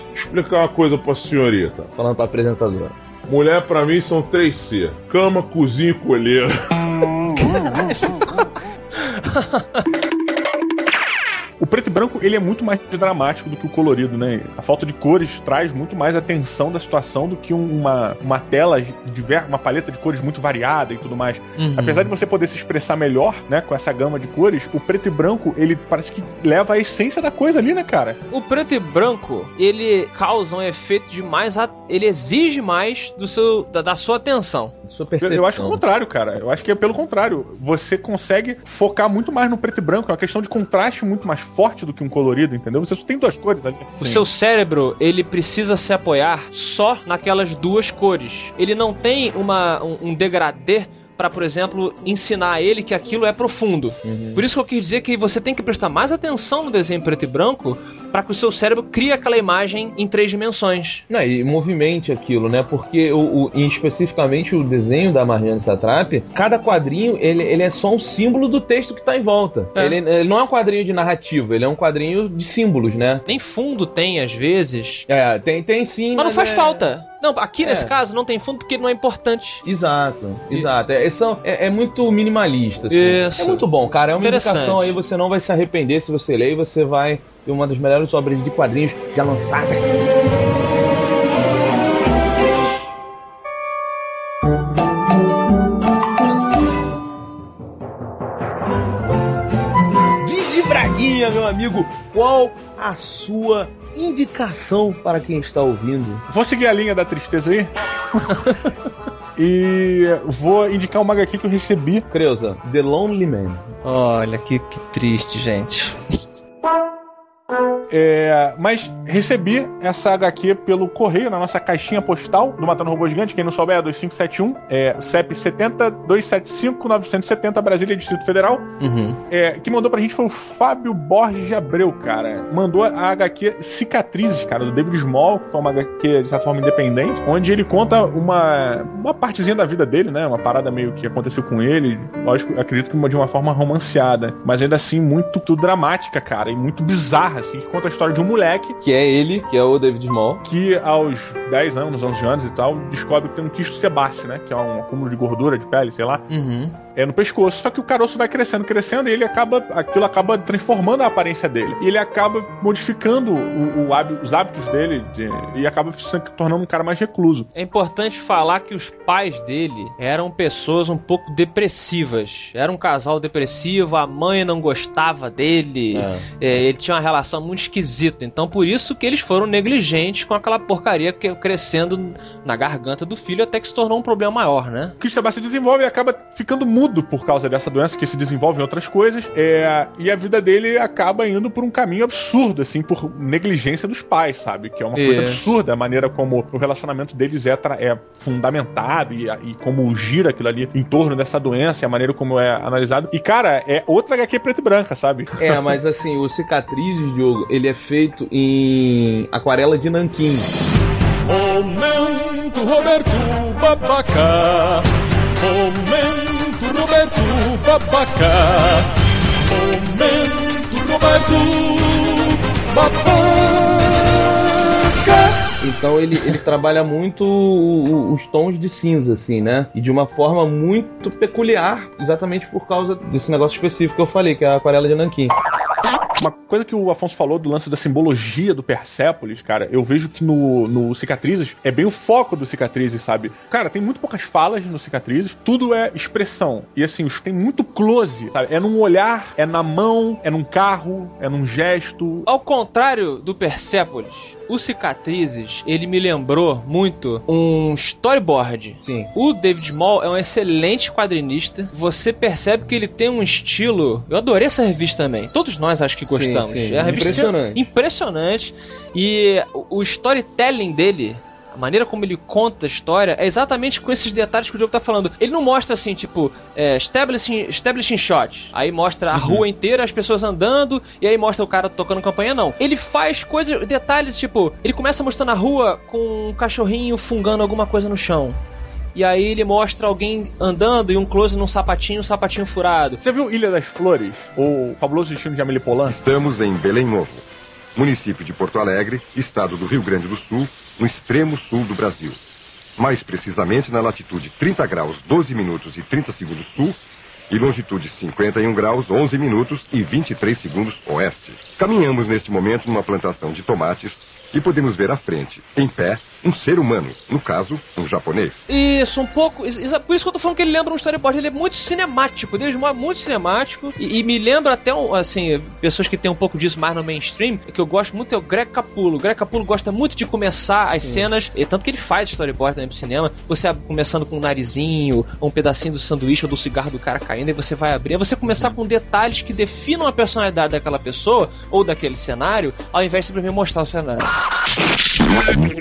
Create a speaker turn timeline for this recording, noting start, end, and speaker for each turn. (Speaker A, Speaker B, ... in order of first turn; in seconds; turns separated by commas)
Speaker A: 0.1-1.9, Speaker B: 2.0-3.0, Speaker A: 3.3-8.0, Speaker C: 9.0-9.8, Speaker D: 11.6-28.2, Speaker C: 21.6-22.1, Speaker C: 28.3-34.8, Speaker B: 34.9-35.8, Speaker D: 35.2-44.3, Speaker C: 44.0-61.0, Speaker B: 54.0-54.5, Speaker B: 61.1-73.2, Speaker C: 73.3-75.1, Speaker B: 75.1-76.9, Speaker C: 76.2-79.6, Speaker B: 77.6-77.9, Speaker B: 79.7-89.9, Speaker C: 82.9-83.7, Speaker C: 84.2-85.0, Speaker B: 100.2-106.2, Speaker D: 106.3-108.5, Speaker D: 109.4-112.0, Speaker B: 112.1-113.7, Speaker C: 113.8-116.0, Speaker D: 117.9-128.7, Speaker C: 128.8-129.2, Speaker D: 129.3-148.8, Speaker B: 148.8-150.4, Speaker D: 150.4-156.3, Speaker C: 156.3-156.8, Speaker D: 157.0-167.5, Speaker C: 167.5-184.9, Speaker B: 175.9-176.3, Speaker D: 185.0-205.5, Speaker C: 194.9-195.5, Speaker B: 205.4-210.5, Speaker E: 211.3-218.9, Speaker E: 219.4-225.4, Speaker B: 225.6-235.3, Speaker D: 236.2-252.3, Speaker C: 252.3-288.4, Speaker B: 258.8-259.1, Speaker B: 266.1-267.6, Speaker D: 279.1-279.4, Speaker C: 288.9-293.0, Speaker D: 293.0-296.0, Speaker F: 296.0-297.2, Speaker F: 297.8-302.2, Speaker F: 302.8-306.8, Speaker F: 307.3-318.4, Speaker C: 318.5-344.1